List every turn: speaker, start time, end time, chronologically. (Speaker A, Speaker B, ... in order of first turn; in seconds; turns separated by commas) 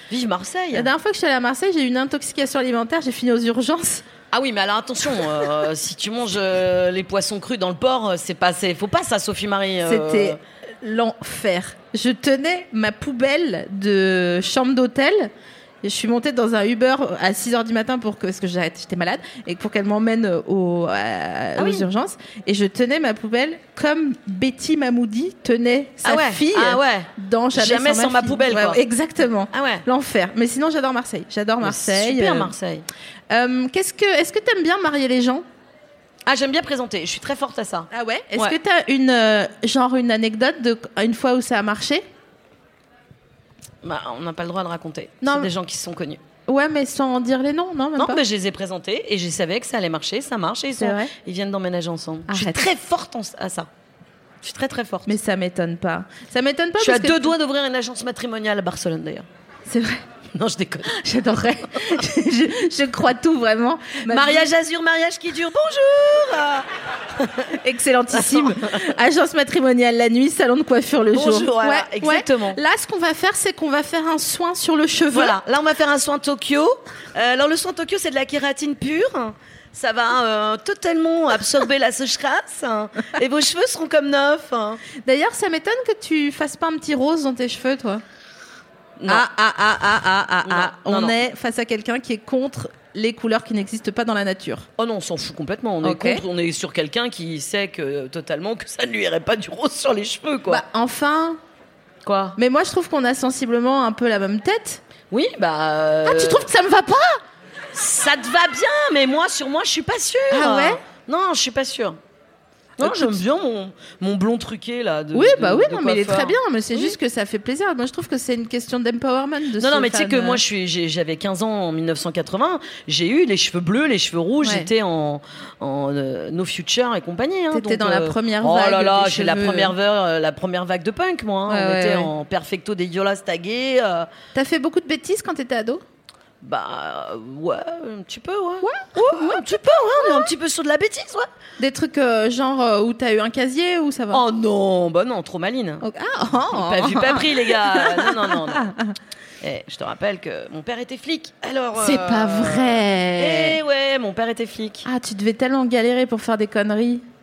Speaker A: 0.1-0.9, Speaker B: 0.7-4.0, Speaker A: 4.3-10.4, Speaker B: 9.8-15.3, Speaker B: 15.8-32.5, Speaker A: 21.6-21.9, Speaker A: 26.0-28.8, Speaker A: 29.5-29.9, Speaker A: 31.6-32.9, Speaker B: 33.3-35.4, Speaker A: 36.3-38.6, Speaker B: 37.9-42.0, Speaker A: 43.8-46.2, Speaker B: 45.2-45.5, Speaker B: 46.5-48.2, Speaker A: 48.0-53.7, Speaker B: 50.8-51.1, Speaker B: 52.3-52.6, Speaker A: 54.4-55.1, Speaker B: 55.1-57.3, Speaker A: 56.8-59.2, Speaker B: 59.7-60.0, Speaker A: 60.3-61.0, Speaker B: 60.9-64.5, Speaker A: 64.1-66.7, Speaker A: 67.2-67.5, Speaker B: 67.6-75.4, Speaker A: 68.1-68.9, Speaker A: 71.1-72.6, Speaker A: 75.1-84.8, Speaker B: 85.0-88.0, Speaker A: 89.0-89.2, Speaker B: 89.1-94.7, Speaker A: 90.5-91.2, Speaker A: 94.8-100.6, Speaker B: 95.8-96.2, Speaker B: 100.5-101.4, Speaker A: 102.0-102.4, Speaker B: 102.4-104.8, Speaker A: 105.1-106.5, Speaker B: 106.1-107.2, Speaker A: 107.7-112.0, Speaker B: 110.3-110.8, Speaker A: 112.8-117.0, Speaker B: 112.8-113.2, Speaker B: 115.1-120.4, Speaker A: 119.6-134.1, Speaker B: 124.4-124.7, Speaker B: 127.5-129.7, Speaker B: 131.5-132.1, Speaker B: 134.3-135.8, Speaker A: 136.4-141.3, Speaker B: 138.6-139.4, Speaker B: 140.0-140.3, Speaker B: 141.6-144.2, Speaker A: 144.1-145.8, Speaker B: 145.8-148.9, Speaker A: 146.5-148.7, Speaker A: 149.4-154.9, Speaker B: 151.8-153.6, Speaker B: 154.8-157.0